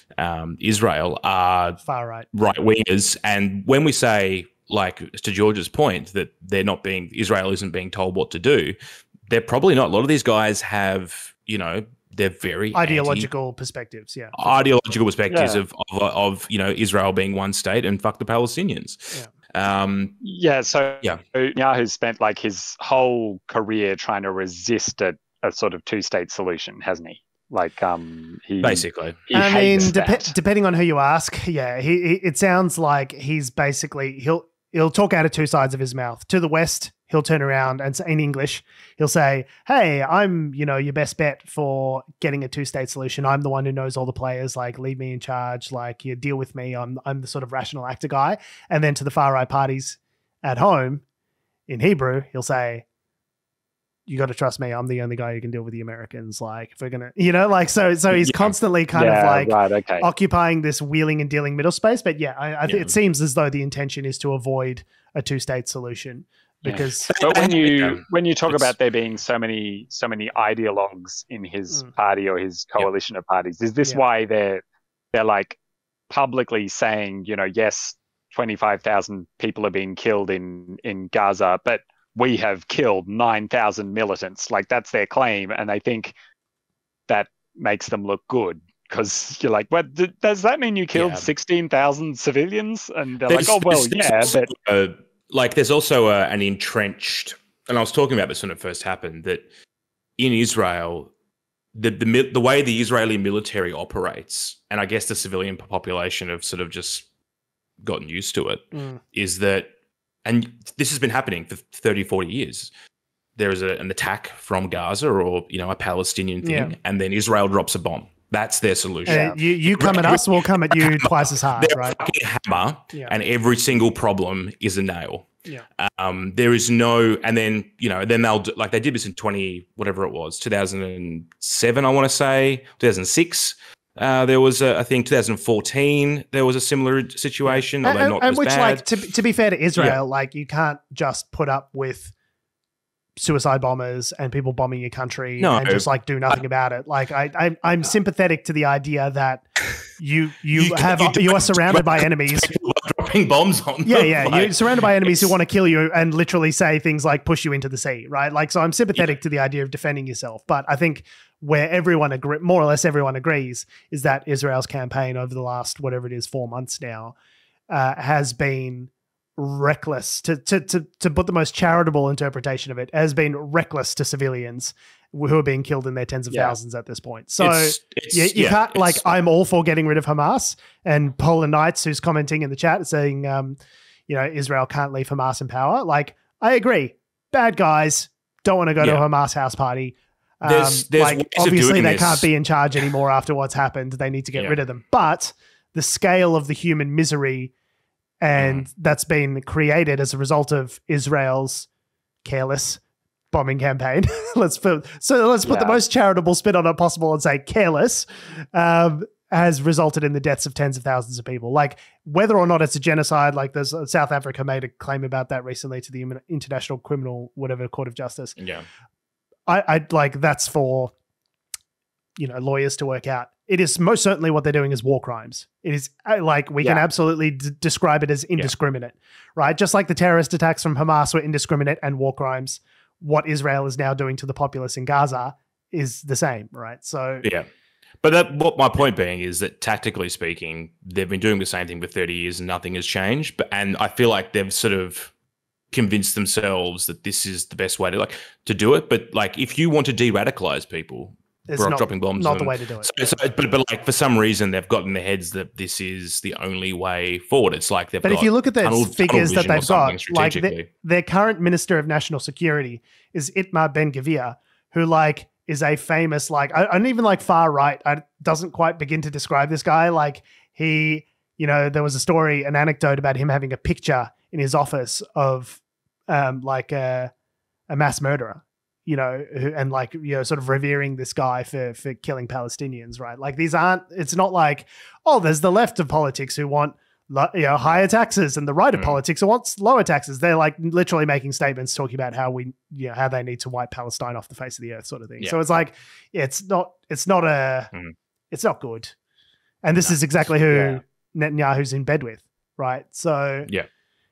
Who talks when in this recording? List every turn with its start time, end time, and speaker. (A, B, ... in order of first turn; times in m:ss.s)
0:00.2-0:01.8 A
0:01.8-0:02.3 B
0:02.3-0:08.7 A
0:09.3-0:13.3 A
0:12.7-0:14.5 B
0:14.3-0:20.2 A
0:15.3-0:15.6 C
0:20.2-0:30.3 C
0:28.6-0:29.2 A
0:29.3-0:51.0 B
0:51.7-0:52.8 B
0:54.1-1:07.1 B
0:58.2-0:58.5 A
0:58.9-1:00.0 C
1:02.7-1:03.0 A
1:06.6-1:14.6 C
1:07.1-1:08.7 A
1:15.1-1:15.6 C
1:16.1-1:26.2 C
1:27.1-1:34.5 C
1:30.9-1:31.3 A
1:33.3-1:39.4 A
1:40.2-1:41.1 A
1:41.7-1:47.0 A
1:47.8-1:49.7 A
1:48.7-1:49.0 B
1:50.2-1:52.7 A
1:53.4-2:18.8 A
1:56.4-1:56.7 B
1:59.0-1:59.4 C
1:59.0-2:02.0 B
2:17.4-2:22.1 B
2:23.2-2:32.5 B
2:25.4-2:26.4 A
2:30.5-2:35.3 A
2:33.8-2:47.1 B
2:47.7-3:17.5 B
2:56.3-2:56.6 C
2:57.4-2:59.0 A
3:10.4-3:12.3 A
3:14.3-3:14.6 A
3:18.2-3:21.7 B
3:18.4-3:18.7 A
3:22.2-3:22.8 B
3:23.3-3:38.4 B
3:25.4-3:25.8 C
3:38.4-3:38.6 A
3:39.5-3:40.9 B
3:42.2-3:57.3 B
3:58.0-4:05.1 A
4:05.7-4:20.7 A
4:11.5-4:12.9 B
4:18.0-4:37.1 B
4:37.7-4:57.7 B
4:48.7-4:49.0 A
4:58.3-4:58.9 B
4:59.6-5:03.5 B
5:00.5-5:00.8 C